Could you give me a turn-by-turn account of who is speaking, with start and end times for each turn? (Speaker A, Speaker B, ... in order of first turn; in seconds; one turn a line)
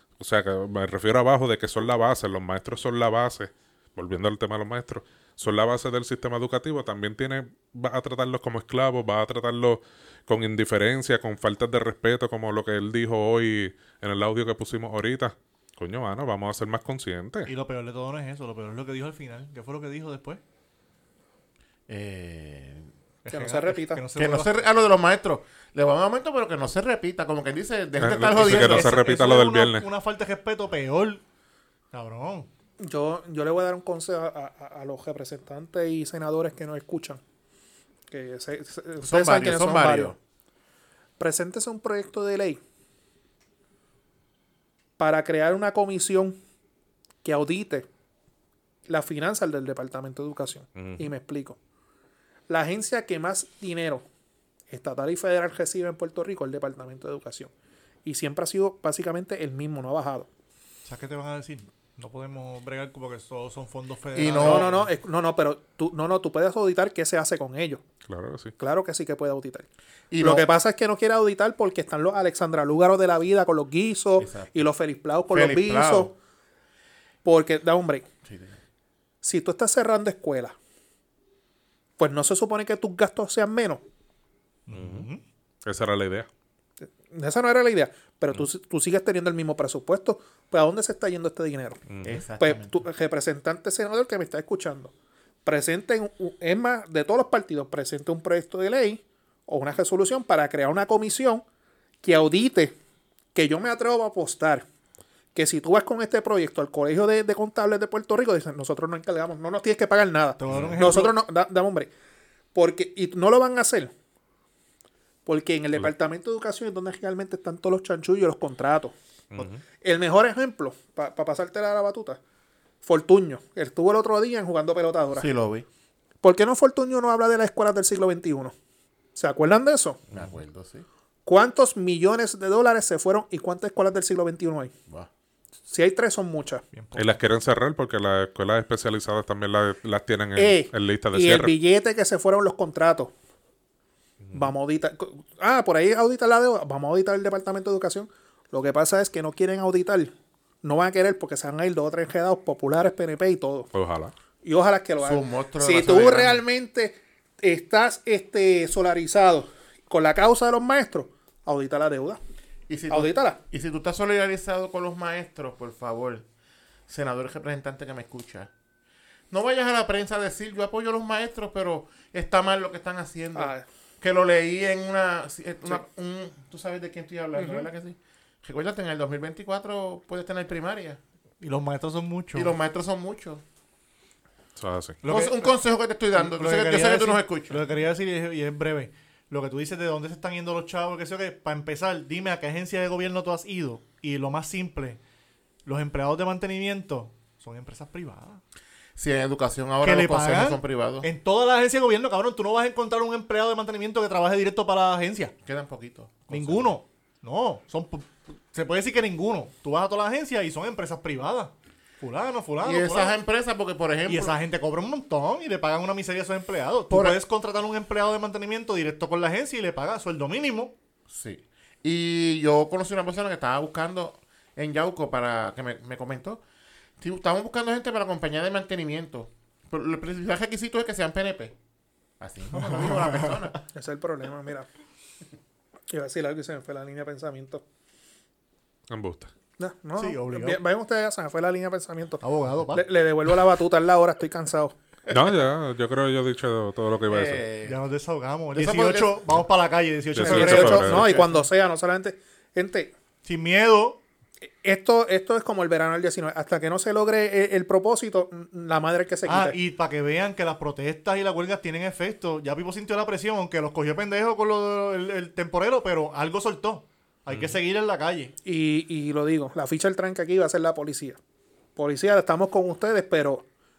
Speaker A: 0.2-17.5
Speaker B: 17.5-20.4
Speaker C: 21.9-22.9
Speaker B: 23.2-24.6
Speaker D: 23.3-24.0
Speaker C: 24.1-29.0
Speaker A: 28.0-29.9
Speaker B: 28.4-31.2
Speaker B: 31.9-32.5
Speaker D: 32.8-37.2
Speaker D: 38.1-40.1
Speaker C: 39.0-40.1
Speaker D: 41.2-42.6
Speaker D: 45.0-46.4
Speaker D: 47.2-47.9
Speaker D: 48.9-51.6
Speaker A: 50.8-51.1
Speaker D: 52.5-54.0
Speaker D: 54.7-57.5
Speaker D: 58.0-60.3
Speaker B: 60.9-64.9
Speaker C: 64.1-64.7
Speaker D: 64.3-67.8
Speaker A: 68.1-68.5
Speaker D: 68.6-69.7
Speaker C: 70.1-70.4
Speaker D: 70.2-76.1
Speaker C: 74.2-74.5
Speaker C: 75.3-76.1
Speaker D: 77.2-78.0
Speaker C: 78.2-78.6
Speaker D: 79.2-80.5
Speaker D: 82.0-83.8
Speaker B: 84.7-85.2
Speaker A: 84.7-85.1
Speaker A: 85.6-86.3
Speaker D: 86.8-91.8
Speaker A: 91.9-92.2
Speaker C: 92.0-92.8
Speaker D: 92.4-94.9
Speaker D: 95.5-101.4
Speaker D: 102.0-102.8
Speaker D: 103.3-104.7
Speaker D: 105.3-111.9
Speaker B: 110.4-111.1
Speaker A: 110.5-110.8
Speaker D: 112.5-113.9
Speaker D: 115.2-118.9
Speaker A: 119.3-119.6
Speaker D: 119.8-122.2
Speaker D: 122.8-125.3
Speaker C: 125.1-125.7
Speaker D: 126.2-128.5
Speaker D: 129.1-130.0
Speaker C: 130.1-130.8
Speaker D: 131.2-134.7
Speaker D: 135.7-136.6
Speaker B: 136.7-137.1
Speaker A: 136.9-141.5
Speaker D: 140.4-143.1
Speaker D: 144.3-153.7
Speaker A: 153.7-154.1
Speaker D: 154.4-162.2
Speaker C: 155.0-156.4
Speaker C: 162.7-166.2
Speaker D: 162.9-163.4
Speaker C: 166.9-168.5
Speaker C: 169.3-181.0
Speaker D: 173.3-173.6
Speaker D: 177.3-177.7
Speaker B: 181.4-182.5
Speaker C: 182.3-183.4
Speaker A: 184.6-185.0
Speaker B: 185.0-185.5
Speaker C: 185.1-187.6
Speaker B: 186.2-195.0
Speaker B: 195.6-198.4
Speaker C: 199.0-201.1
Speaker B: 199.8-205.3
Speaker C: 205.4-206.8
Speaker B: 206.3-213.2
Speaker C: 212.6-214.3
Speaker B: 214.1-220.7
Speaker C: 216.9-217.2
Speaker C: 221.1-226.4
Speaker C: 227.0-231.5
Speaker C: 232.2-233.6
Speaker B: 232.5-233.6
Speaker D: 233.7-234.7
Speaker D: 235.9-237.6
Speaker A: 238.9-239.3
Speaker D: 239.6-244.8
Speaker B: 240.0-240.6
Speaker B: 242.2-242.9
Speaker A: 245.1-247.4
Speaker C: 247.1-247.8
Speaker B: 247.6-251.2
Speaker C: 248.5-249.2
Speaker A: 250.1-251.1
Speaker D: 250.2-252.9
Speaker C: 250.3-251.4
Speaker B: 253.2-254.0
Speaker D: 254.6-259.6
Speaker B: 259.2-268.3
Speaker A: 267.3-267.6
Speaker D: 268.4-271.2
Speaker D: 271.8-273.4